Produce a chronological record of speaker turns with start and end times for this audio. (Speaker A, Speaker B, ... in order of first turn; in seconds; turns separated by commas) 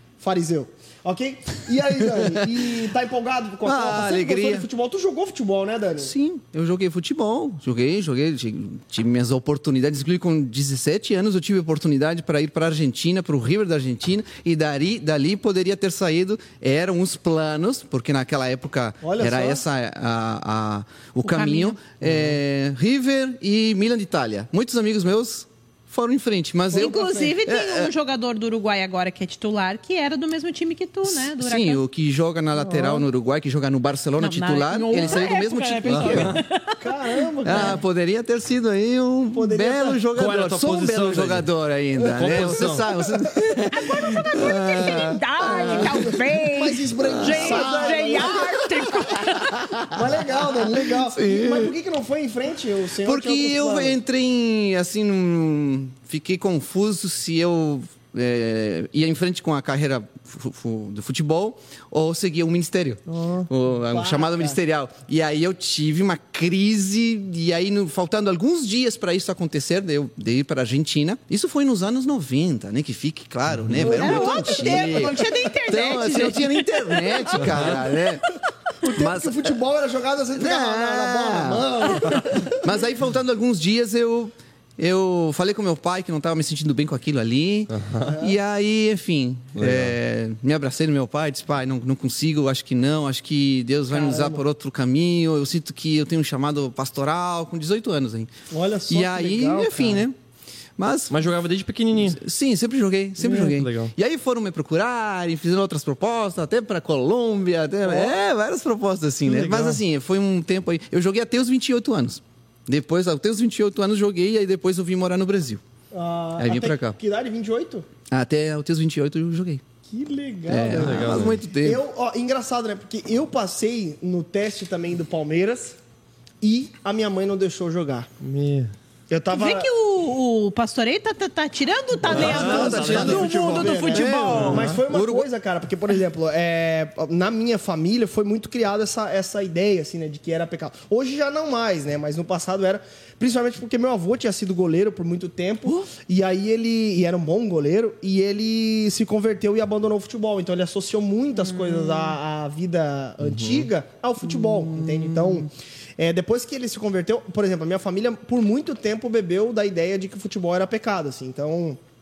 Speaker A: 0.2-6.1, Speaker B: 2.0-2.9, Speaker B: 3.6-4.7, Speaker B: 6.0-27.9, Speaker A: 19.0-19.6, Speaker C: 21.2-21.8, Speaker A: 26.7-27.4, Speaker C: 26.7-31.8, Speaker B: 31.0-36.4, Speaker A: 32.6-33.0, Speaker C: 34.2-36.8, Speaker A: 35.0-35.3, Speaker D: 35.9-36.4, Speaker A: 36.8-37.8, Speaker B: 37.4-46.1, Speaker C: 37.5-37.8, Speaker A: 39.3-40.0, Speaker D: 40.1-41.5, Speaker A: 42.0-42.3, Speaker D: 42.1-42.9, Speaker C: 43.8-49.6, Speaker A: 45.4-48.6, Speaker B: 47.0-51.7, Speaker A: 49.9-54.0, Speaker B: 53.0-78.2, Speaker A: 63.1-64.6, Speaker A: 73.8-75.3, Speaker C: 73.8-77.8, Speaker A: 78.8-82.6, Speaker B: 78.8-79.5, Speaker B: 80.3-98.3, Speaker D: 87.7-88.1, Speaker A: 88.0-88.3, Speaker D: 89.5-89.9, Speaker A: 93.9-94.4, Speaker A: 98.5-100.0, Speaker B: 98.9-100.2, Speaker B: 100.8-101.1, Speaker D: 101.1-102.2, Speaker B: 101.9-115.6, Speaker D: 103.2-103.9, Speaker A: 107.8-108.1, Speaker A: 109.2-109.8, Speaker A: 115.9-117.9, Speaker B: 116.4-117.0, Speaker B: 118.1-119.6, Speaker A: 119.9-125.8, Speaker B: 120.5-121.8, Speaker D: 120.7-121.4, Speaker A: 126.4-128.1, Speaker D: 128.2-128.7, Speaker A: 129.1-129.7, Speaker C: 129.3-134.7, Speaker A: 132.0-161.8, Speaker D: 132.0-134.8, Speaker B: 132.2-135.3, Speaker C: 151.3-152.2, Speaker D: 153.2-153.7, Speaker B: 154.2-155.5